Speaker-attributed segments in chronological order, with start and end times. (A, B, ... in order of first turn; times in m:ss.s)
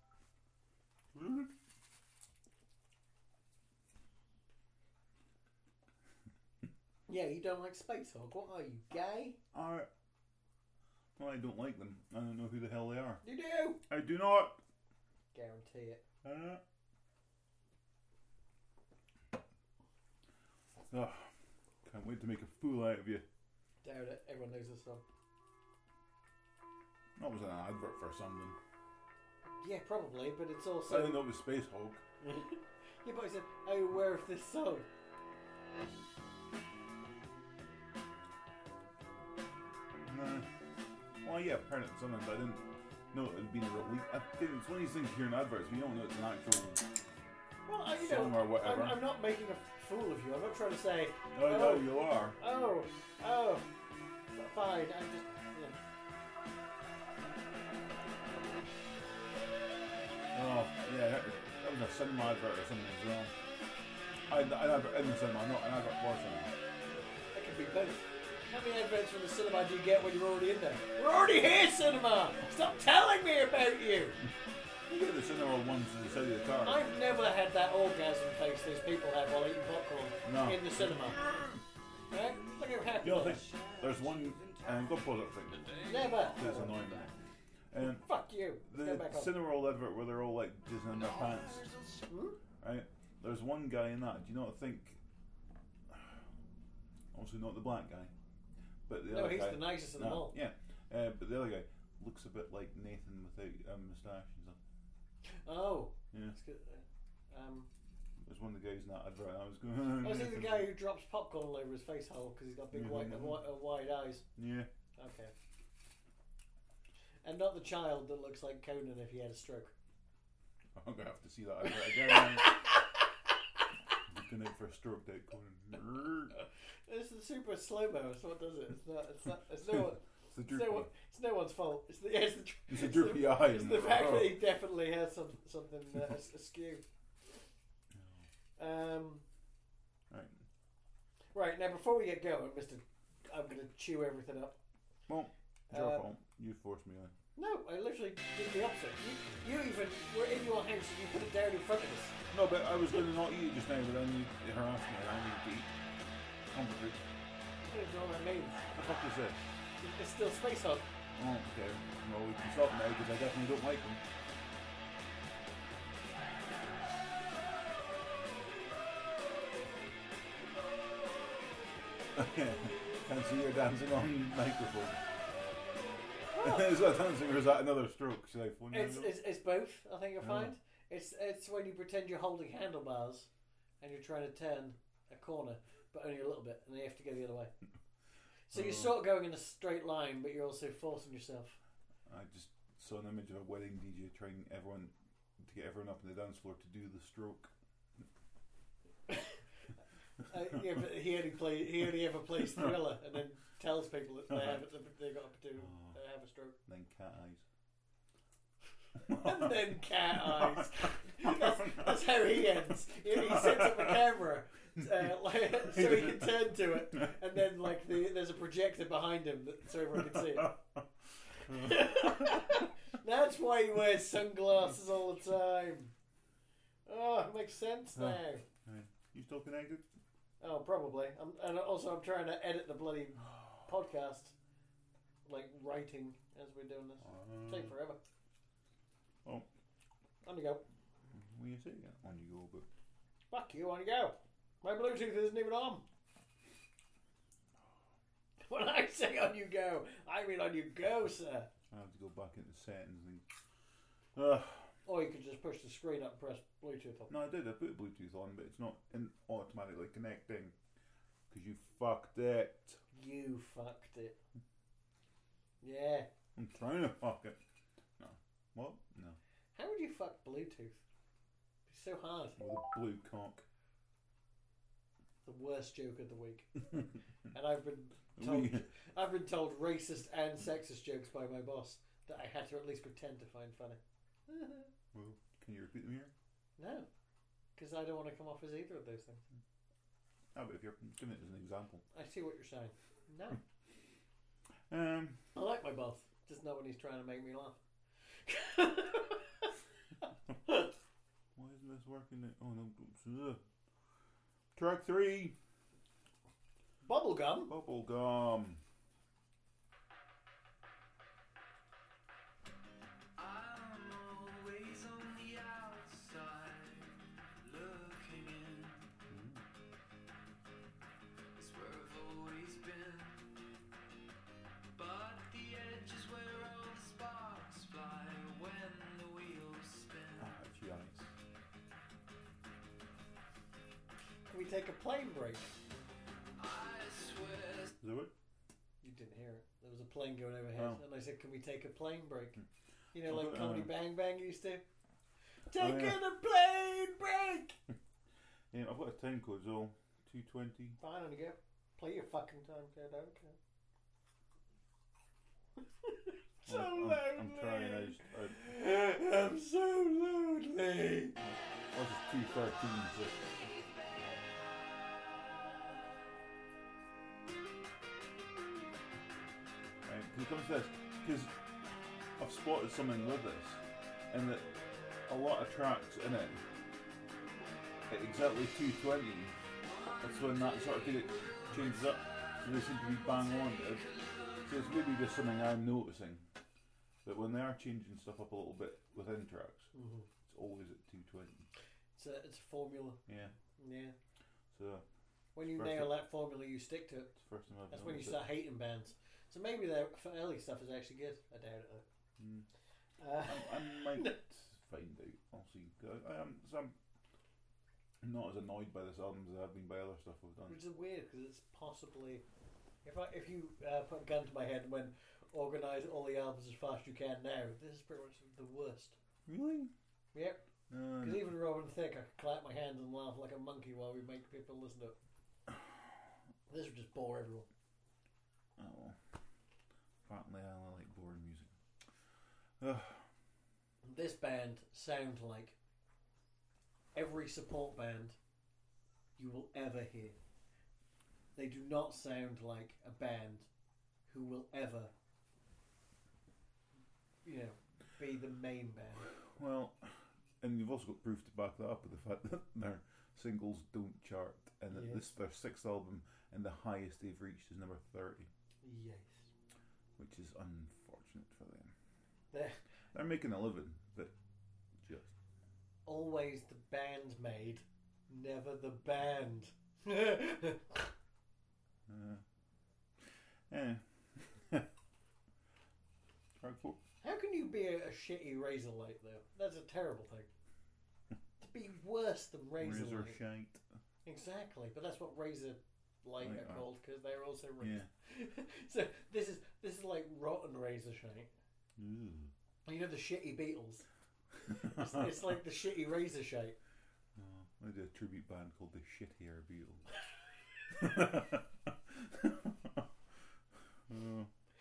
0:01.2-0:01.5 A
0:07.1-0:09.4 B
0:09.5-0:09.9 A
0:11.2-0:13.2 A
0:13.2-0:13.8 B
0:13.9-0:14.6 A
0:15.3-0:16.0 B
0:16.2-0:16.6 A
0:20.9-0:21.3 A
0:21.8-0:23.2 A
0:23.8-0:25.0 B
0:27.2-0:28.6 A
0:29.6-0:31.3 B
0:30.9-0:32.0 A
0:32.2-0:34.9 B
0:40.0-0:40.5 A
0:41.2-0:46.9 A
0:47.7-0:53.7 B
0:48.0-0:49.0 A
0:51.3-0:52.4 A
0:54.3-0:55.8 B
1:00.3-1:03.3 A
1:04.3-1:06.5 A
1:07.3-1:14.2 B
1:14.9-1:16.9 A
1:16.6-1:21.2 B
1:20.2-1:21.6 A
1:22.1-1:23.5 B
1:23.0-1:27.1 A
1:23.3-1:24.8 C
1:25.5-1:26.3 C
1:25.8-1:26.8 B
1:27.7-1:28.1 A
1:27.8-1:29.3 B
1:28.6-1:31.7 A
1:31.1-1:32.0 C
1:32.1-1:32.4 B
1:32.6-1:35.0 A
1:35.9-1:36.2 A
1:37.1-1:38.1 A
1:38.9-1:44.6 A
1:39.1-1:40.4 B
1:45.2-1:47.7 B
1:48.2-1:50.7 A
1:50.0-1:54.2 B
1:52.7-1:53.5 A
1:54.4-1:54.7 A
1:55.0-1:55.3 B
1:57.2-1:59.7 B
2:00.8-2:02.7 A
2:02.0-2:02.7 B
2:04.1-2:06.4 A
2:06.4-2:16.8 B
2:09.7-2:10.9 A
2:12.7-2:14.4 A
2:17.9-2:18.2 A
2:18.6-2:19.2 B
2:20.1-2:20.4 A
2:21.3-2:24.6 B
2:25.1-2:27.2 A
2:25.7-2:26.0 B
2:27.4-2:32.2 B
2:32.3-2:35.7 A
2:36.5-2:37.0 A
2:37.7-2:38.7 B
2:38.8-2:39.4 A
2:39.8-2:40.8 B
2:41.2-2:44.0 A
2:52.1-2:55.0 A
2:56.3-2:56.7 B
2:56.4-2:59.2 A
2:58.7-3:03.3 B
3:00.2-3:00.5 A
3:03.8-3:07.5 B
3:08.5-3:11.6 B
3:08.5-3:09.0 A
3:12.1-3:17.5 A
3:19.1-3:19.4 B
3:20.2-3:26.6 B
3:24.3-3:24.6 A
3:25.7-3:26.0 A
3:26.7-3:27.4 A
3:29.0-3:29.6 A
3:29.1-3:40.6 B
3:30.1-3:32.1 A
3:33.1-3:34.0 A
3:35.6-3:36.5 A
3:40.1-3:40.5 A
3:41.5-3:42.4 A
3:41.5-3:45.9 B
3:46.9-3:48.4 B
3:48.0-3:49.9 A
3:50.4-3:54.3 B
3:55.2-3:58.0 B
3:57.0-3:57.7 A
4:00.2-4:00.6 B
4:01.1-4:02.7 A
4:03.3-4:05.8 B
4:08.4-4:11.5 B
4:11.7-4:13.2 A
4:14.2-4:14.7 A
4:14.8-4:17.1 B
4:17.1-4:20.5 A
4:21.3-4:22.8 A
4:22.9-4:24.2 B
4:25.6-4:26.1 B
4:26.4-4:27.4 A
4:28.0-4:29.2 A
4:29.6-4:30.8 B
4:31.7-4:32.4 B
4:32.4-4:33.4 A
4:35.2-4:36.6 B
4:37.3-4:44.7 B
4:38.2-4:38.7 A
4:44.9-4:46.1 A
4:46.6-4:46.9 B
4:47.6-4:49.2 B
4:50.3-4:51.8 A
4:51.9-4:53.4 B
4:54.7-4:55.2 A
4:55.4-4:57.6 B
4:58.2-4:59.5 B
5:00.5-5:00.7 B
5:01.4-5:03.4 A
5:04.6-5:05.4 A
5:06.8-5:07.5 B
5:07.5-5:08.6 A
5:13.2-5:18.9 C
5:19.1-5:19.4 A
5:21.4-5:23.4 C
5:24.8-5:30.3 C
5:30.2-5:31.1 A
5:34.3-5:35.5 B
5:36.4-5:37.8 C
5:37.8-5:38.1 A
5:38.8-5:42.4 B
5:40.6-5:40.8 A
5:42.9-5:44.6 B
5:43.0-5:43.7 A
5:45.5-5:47.6 B
5:45.6-5:46.0 A
5:48.5-5:50.8 A
5:50.8-5:53.4 B
5:55.6-6:01.2 B
5:56.5-5:58.4 A
6:01.2-6:03.2 A
6:03.3-6:04.2 C
6:09.8-6:11.3 A
6:12.2-6:14.5 A
6:15.1-6:16.4 A
6:17.9-6:19.4 A
6:19.7-6:24.8 C
6:20.0-6:23.9 A
6:24.5-6:26.3 A
6:27.0-6:29.7 A
6:29.7-6:30.1 B
6:30.3-6:31.5 A
6:32.0-6:33.0 B
6:33.1-6:33.3 A
6:33.6-6:34.0 B
6:34.5-6:34.8 A
6:35.4-6:37.1 B
6:35.4-6:36.0 A
6:37.2-6:38.3 A
6:37.7-6:41.8 B
6:42.2-6:42.5 A
6:43.0-6:44.2 B
6:43.2-6:46.8 A
6:48.0-6:50.6 A
6:50.5-6:52.2 B
6:52.8-6:59.0 B
6:59.3-6:59.7 A
7:00.1-7:00.4 B
7:00.7-7:01.3 A
7:01.0-7:05.0 B
7:06.5-7:07.5 B
7:08.6-7:09.0 A
7:10.1-7:11.5 A
7:12.6-7:13.0 A
7:13.8-7:15.6 B
7:17.0-7:18.2 B
7:19.2-7:20.2 B
7:21.4-7:23.5 B
7:24.1-7:24.9 B
7:27.2-7:29.1 B
7:29.3-7:38.3 A
7:34.7-7:35.1 B
7:38.6-7:39.3 B
7:40.0-7:41.7 A
7:42.3-7:42.6 B
7:42.9-7:44.1 A
7:44.8-7:45.1 A
7:45.9-7:50.9 B
7:51.9-7:52.2 A
7:53.5-7:54.7 A
7:56.4-7:56.8 A
7:57.0-8:00.3 B
8:01.4-8:03.2 B
8:02.6-8:03.6 A
8:04.0-8:11.3 B
8:06.2-8:06.6 A
8:07.6-8:07.9 A
8:11.8-8:12.3 A
8:12.7-8:13.9 B
8:14.5-8:15.3 A
8:14.5-8:16.6 B
8:17.2-8:19.8 A
8:20.7-8:22.9 A
8:23.9-8:24.3 A